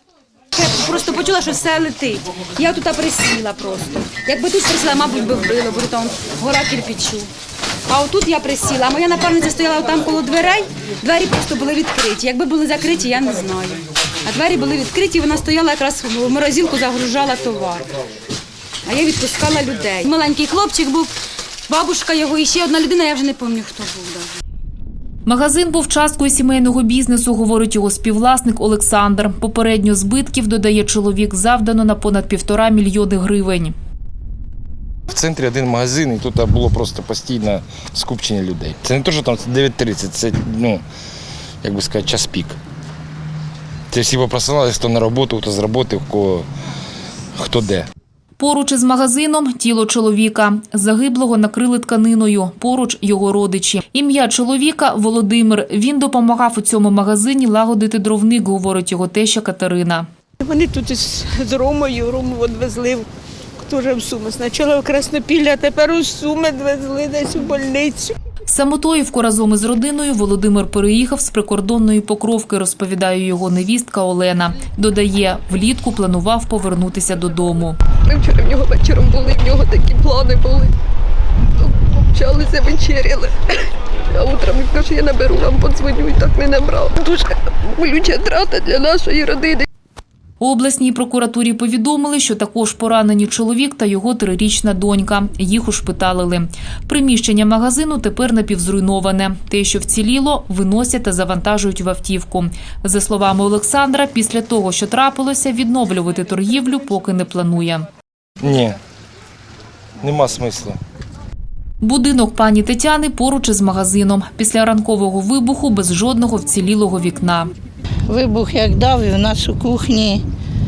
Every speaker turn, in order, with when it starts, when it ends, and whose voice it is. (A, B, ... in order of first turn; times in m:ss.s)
0:00.5-0:07.3 A
0:07.9-0:17.9 A
0:18.8-0:21.1 A
0:21.7-0:24.4 A
0:25.2-0:33.7 B
0:35.1-0:40.8 C
0:41.6-0:42.6 C
0:43.9-0:46.5 C
0:47.3-0:47.9 C
0:48.4-1:00.1 B
1:00.4-1:03.0 D
1:03.6-1:08.1 D
1:08.5-1:17.8 B
1:18.1-1:20.7 E
1:21.6-1:23.4 E
1:24.1-1:29.6 E
1:30.4-1:47.9 B
1:48.4-1:48.8 C
1:50.0-1:50.8 C
1:51.8-1:57.5 B
1:58.1-2:00.2 F